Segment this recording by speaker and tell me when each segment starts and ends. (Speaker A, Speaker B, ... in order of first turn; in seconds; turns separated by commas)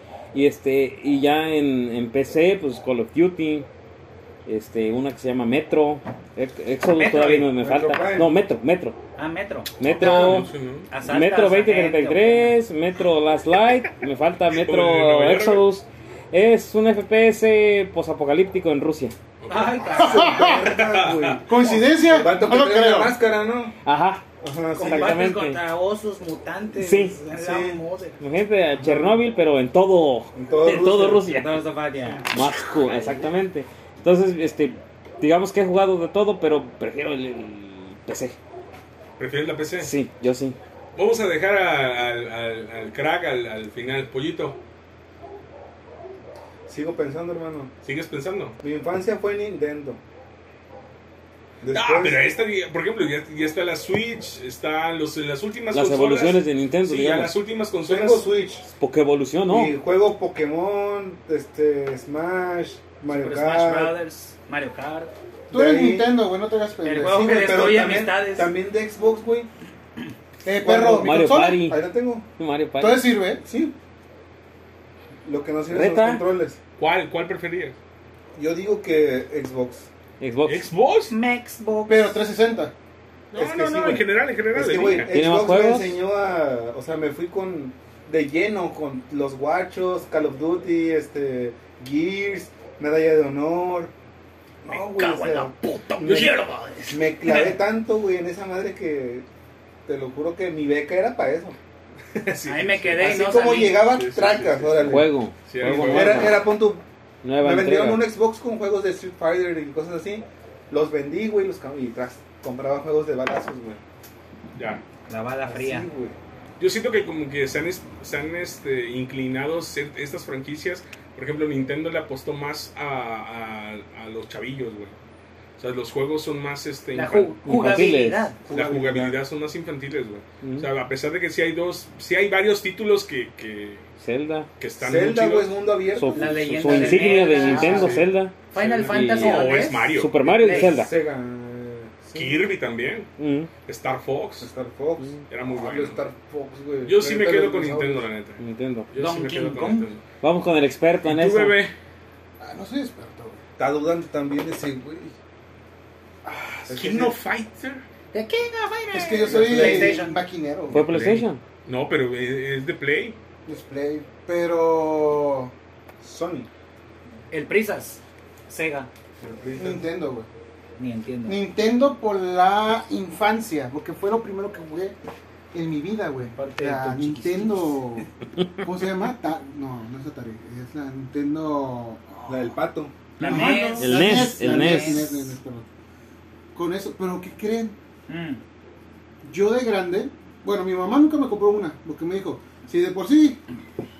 Speaker A: 0.3-3.7, Speaker A: 4.5-9.0, Speaker B: 7.0-7.5, Speaker C: 7.2-8.3, Speaker B: 9.2-10.3, Speaker A: 9.8-10.5, Speaker D: 9.8-10.9, Speaker B: 10.9-12.6, Speaker A: 11.0-19.1, Speaker D: 14.5-15.7, Speaker D: 19.4-19.8, Speaker B: 19.5-20.6, Speaker C: 19.9-23.8, Speaker E: 20.0-20.7, Speaker D: 20.5-21.4, Speaker E: 21.4-23.2, Speaker A: 23.8-24.2, Speaker C: 24.4-25.2, Speaker A: 24.8-25.6, Speaker B: 24.8-28.2, Speaker A: 26.8-27.2, Speaker C: 27.3-27.8, Speaker A: 28.2-31.6, Speaker C: 28.8-29.2, Speaker C: 30.4-31.3, Speaker B: 31.2-33.3, Speaker A: 32.3-38.4, Speaker D: 39.2-39.9, Speaker A: 39.8-40.6, Speaker D: 41.0-44.6, Speaker C: 46.7-47.7, Speaker D: 47.8-48.6, Speaker C: 48.6-50.0, Speaker C: 51.6-52.3, Speaker D: 51.7-58.3, Speaker A: 55.7-57.4, Speaker C: 57.9-58.7, Speaker A: 58.8-59.8, Speaker C: 59.5-64.0, Speaker B: 63.1-65.1, Speaker C: 65.5-66.2, Speaker E: 65.5-67.2, Speaker B: 66.8-68.5, Speaker C: 67.0-69.5, Speaker E: 70.4-71.7, Speaker C: 70.6-72.3, Speaker A: 71.0-71.8, Speaker A: 72.4-73.2, Speaker E: 72.8-73.4, Speaker C: 73.4-73.8, Speaker C: 75.2-76.6, Speaker A: 75.7-76.2, Speaker D: 76.8-77.8, Speaker C: 78.3-79.9, Speaker A: 80.2-80.7, Speaker D: 80.5-81.2, Speaker B: 81.1-82.2, Speaker E: 81.9-82.7, Speaker D: 83.3-85.1, Speaker C: 83.3-93.9, Speaker A: 85.1-86.0, Speaker C: 94.6-96.3, Speaker B: 94.7-97.6, Speaker D: 96.0-96.3, Speaker C: 96.9-99.3, Speaker C: 99.9-101.6, Speaker D: 102.2-103.1, Speaker B: 102.5-103.9, Speaker C: 103.0-105.1, Speaker D: 103.9-106.4, Speaker A: 104.9-106.5, Speaker C: 105.6-106.8, Speaker A: 107.2-108.0, Speaker C: 107.4-113.8, Speaker D: 114.5-114.8, Speaker B: 115.1-115.9, Speaker C: 115.4-116.2, Speaker D: 116.6-125.0, Speaker D: 125.6-127.8, Speaker B: 126.9-128.4, Speaker A: 127.5-128.3, Speaker C: 128.4-129.2, Speaker D: 128.5-133.9, Speaker A: 130.4-130.7, Speaker A: 134.0-134.5, Speaker D: 134.6-135.7, Speaker C: 134.8-138.1, Speaker A: 135.9-140.9, Speaker B: 136.1-140.9, Speaker D: 137.5-140.3, Speaker C: 140.2-142.4, Speaker D: 142.1-143.1, Speaker A: 143.2-143.5, Speaker D: 143.7-144.5, Speaker C: 144.4-148.1, Speaker D: 145.3-146.1, Speaker D: 146.8-150.0, Speaker A: 148.4-148.9, Speaker B: 149.0-149.9, Speaker A: 150.2-151.6, Speaker D: 151.1-151.7, Speaker E: 152.4-153.4, Speaker C: 153.6-155.1, Speaker C: 156.3-157.2, Speaker D: 156.7-157.8, Speaker B: 158.1-160.2, Speaker E: 158.9-160.8, Speaker C: 159.2-160.0, Speaker A: 160.7-161.4, Speaker D: 160.7-163.2, Speaker E: 163.5-165.5, Speaker C: 166.0-166.5, Speaker B: 167.3-168.9, Speaker C: 169.2-169.9, Speaker E: 169.6-170.3, Speaker B: 170.8-171.4, Speaker E: 171.3-174.9, Speaker E: 175.5-178.1, Speaker B: 176.3-178.0, Speaker E: 178.6-182.1, Speaker C: 182.3-183.1, Speaker B: 183.2-185.3, Speaker E: 183.2-185.7, Speaker A: 183.3-185.2, Speaker E: 186.6-187.8, Speaker B: 188.1-188.4, Speaker E: 189.2-193.4